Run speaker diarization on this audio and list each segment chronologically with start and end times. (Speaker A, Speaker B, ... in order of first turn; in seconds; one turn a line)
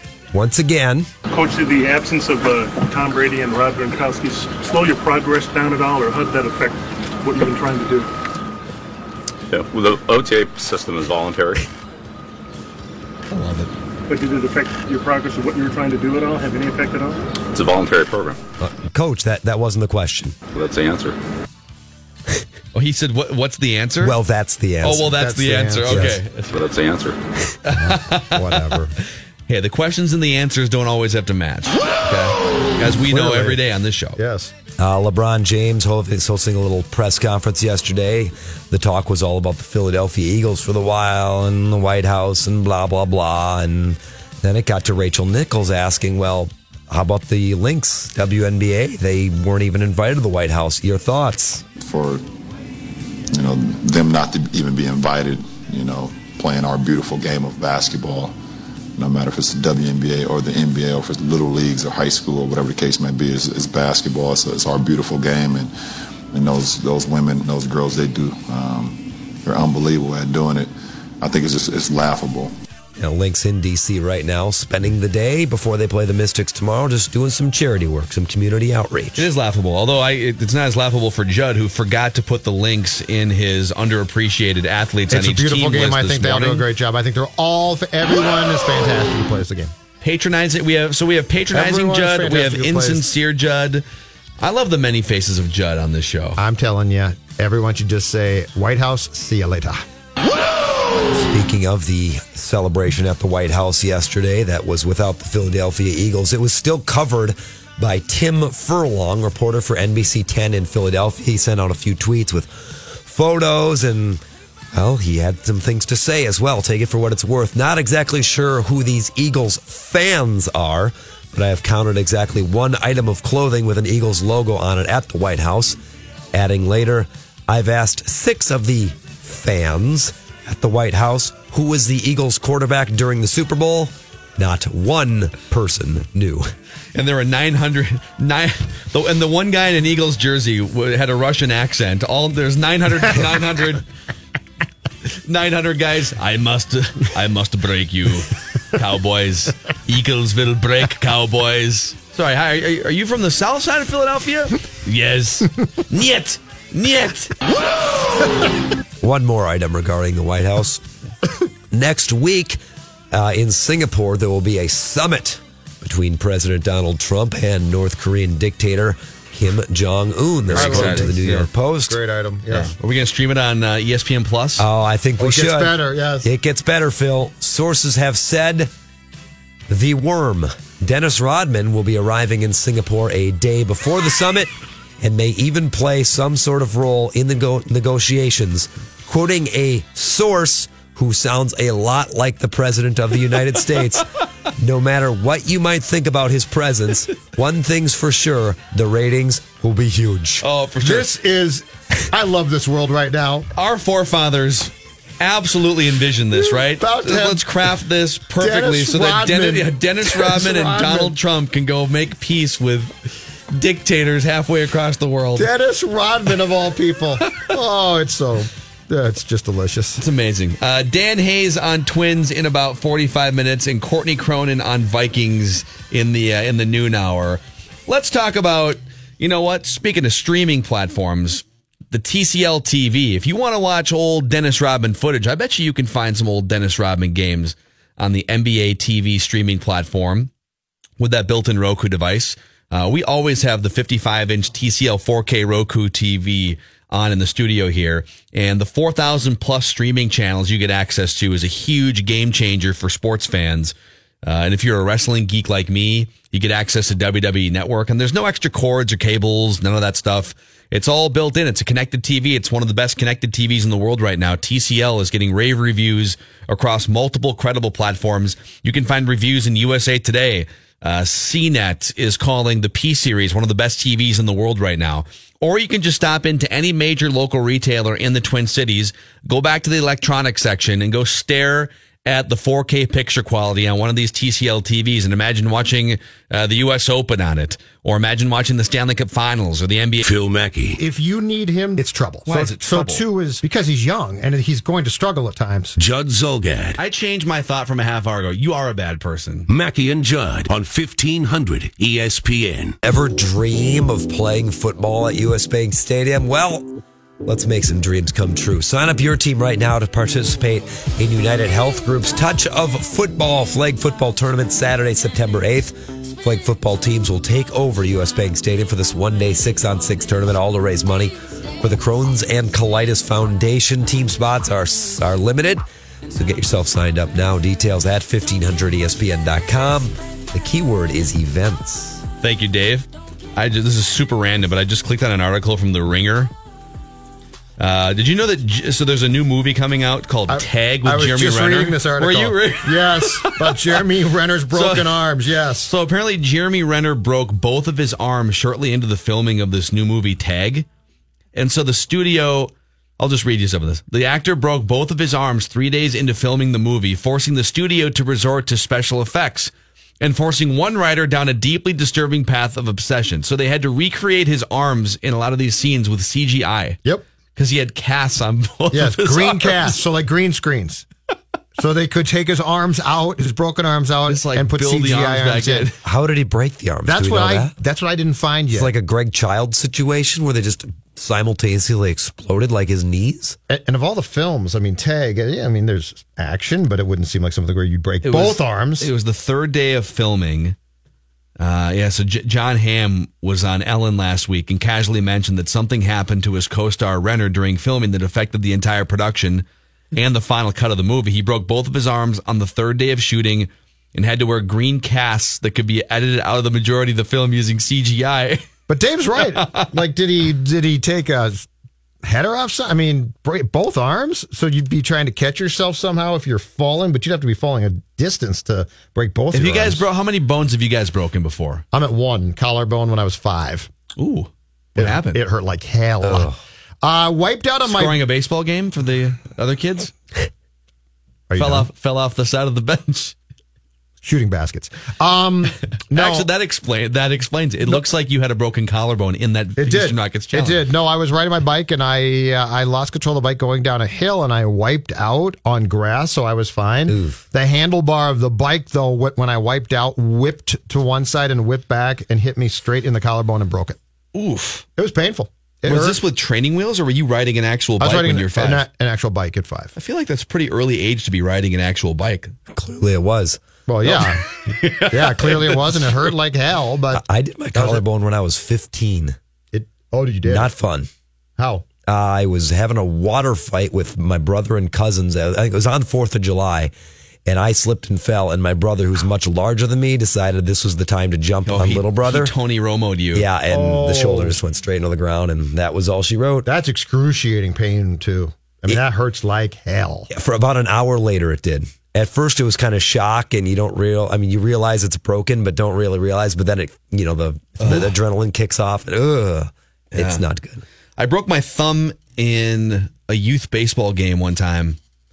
Speaker A: 0.3-1.1
Speaker B: 1.3-8.1
Speaker C: 9.5-11.7
Speaker D: 13.3-13.7
Speaker B: 14.1-17.2
Speaker C: 17.5-18.4
Speaker A: 18.6-20.4
Speaker C: 20.5-21.2
Speaker D: 22.7-24.2
Speaker A: 24.0-25.1
Speaker D: 24.8-26.6
Speaker E: 25.0-26.1
Speaker A: 25.9-26.2
Speaker C: 26.5-27.2
Speaker D: 27.6-28.8
Speaker E: 27.7-28.9
Speaker D: 29.5-34.2
Speaker E: 33.1-33.6
Speaker E: 34.2-34.5
Speaker A: 34.8-51.6
Speaker F: 51.8-52.2
Speaker F: 53.3-58.4
Speaker F: 59.0-65.7
Speaker F: 66.3-72.5
Speaker A: 73.0-79.3
Speaker D: 79.2-86.7
Speaker E: 85.1-89.7
Speaker D: 90.0-93.8
Speaker E: 91.5-93.0
Speaker D: 94.4-96.4
Speaker E: 96.4-99.8
Speaker A: 101.1-114.2
Speaker A: 114.7-125.8
Speaker A: 126.3-136.5
Speaker D: 136.9-143.8
Speaker D: 145.2-157.3
Speaker A: 159.0-160.8
Speaker A: 161.7-162.6
Speaker A: 163.1-172.0
Speaker D: 170.5-171.2
Speaker E: 170.5-172.7
Speaker D: 172.5-174.7
Speaker A: 174.6-178.7
Speaker E: 175.2-176.3
Speaker A: 179.7-200.5
Speaker D: 200.4-201.1
Speaker E: 200.8-203.5
Speaker D: 203.5-215.5
Speaker E: 206.3-207.5
Speaker E: 208.4-211.2
Speaker E: 215.4-220.0
Speaker D: 220.0-240.3
Speaker D: 241.0-290.0
Speaker G: 290.0-290.8
Speaker E: 290.8-295.8
Speaker D: 292.3-293.0
Speaker G: 295.8-296.8
Speaker D: 296.8-299.5
Speaker G: 299.5-302.8
Speaker A: 302.8-306.7
Speaker A: 307.2-332.0
Speaker D: 332.2-336.3
Speaker D: 337.6-343.8
Speaker E: 340.3-345.7
Speaker D: 344.5-345.0
Speaker D: 345.6-350.7
Speaker D: 351.4-366.8
Speaker D: 367.4-369.8
Speaker E: 368.7-370.9
Speaker E: 371.6-375.7
Speaker D: 374.1-375.8
Speaker A: 375.8-377.5
Speaker E: 376.9-378.7
Speaker A: 378.5-383.4
Speaker E: 383.5-388.9
Speaker D: 388.0-390.6
Speaker D: 391.4-399.4
Speaker D: 399.9-408.4
Speaker E: 408.7-411.5
Speaker D: 409.1-409.7
Speaker E: 412.0-419.8
Speaker D: 419.3-421.6
Speaker E: 421.7-423.7
Speaker D: 424.0-425.2
Speaker E: 424.8-426.3
Speaker A: 426.0-426.4
Speaker E: 426.8-428.0
Speaker D: 427.6-429.9
Speaker E: 431.3-431.7
Speaker D: 431.4-433.1
Speaker E: 434.0-436.3
Speaker D: 435.9-440.6
Speaker E: 439.6-453.8
Speaker A: 446.9-447.2
Speaker D: 454.1-454.7
Speaker E: 454.8-456.0
Speaker D: 455.7-458.6
Speaker E: 457.8-459.7
Speaker D: 459.8-462.3
Speaker A: 462.5-463.4
Speaker E: 463.7-464.2
Speaker D: 463.9-466.0
Speaker E: 464.9-467.0
Speaker A: 466.9-469.2
Speaker E: 467.6-467.8
Speaker E: 469.5-470.5
Speaker A: 470.3-470.9
Speaker E: 471.4-471.6
Speaker A: 471.9-476.7
Speaker A: 477.3-482.3
Speaker D: 481.5-483.3
Speaker A: 483.1-486.5
Speaker E: 483.5-484.4
Speaker E: 486.4-490.1
Speaker A: 490.1-500.6
Speaker D: 497.6-497.9
Speaker D: 499.9-500.2
Speaker D: 501.0-504.8